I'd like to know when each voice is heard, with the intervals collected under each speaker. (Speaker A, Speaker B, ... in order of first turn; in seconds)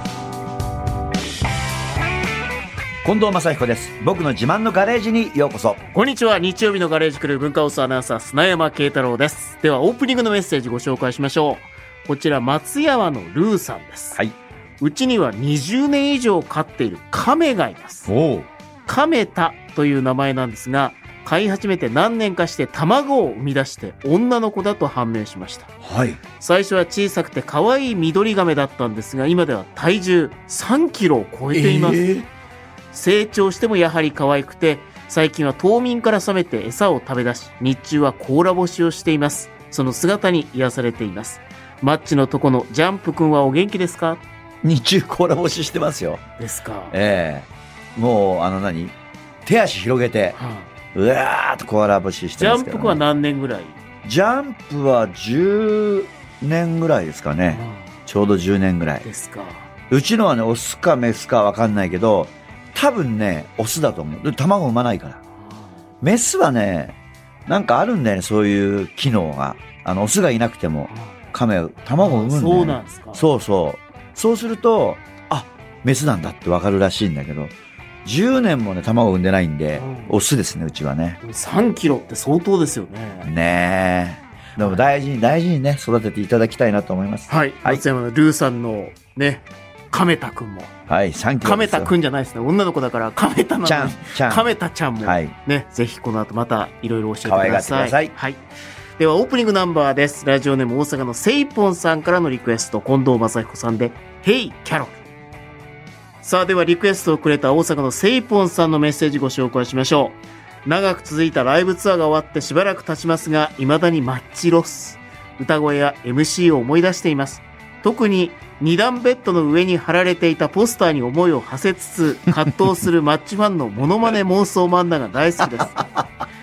Speaker A: 3.0-5.8, 18.1-18.5, 25.8-26.2, 31.5-32.3, 44.6-46.2, 46.9-50.4, 50.9-53.0, 54.0-59.1, 59.9-65.2, 66.0-81.2, 83.2-87.8, 90.9-91.9, 93.6-94.5, 95.0-95.3, 97.2-98.1, 125.4-126.1
Speaker B: 5.9-14.2, 14.8-18.1, 18.9-25.7, 26.4-32.0, 32.9-44.2, 46.4-47.0, 50.4-50.7, 52.4-53.8, 57.5-57.9, 59.0-59.7, 65.4-65.7, 70.9-71.2, 72.0-73.3, 79.8-80.2, 81.2-83.3, 84.6-84.8, 87.3-90.7, 91.4-98.4, 99.0-105.0, 106.2-125.8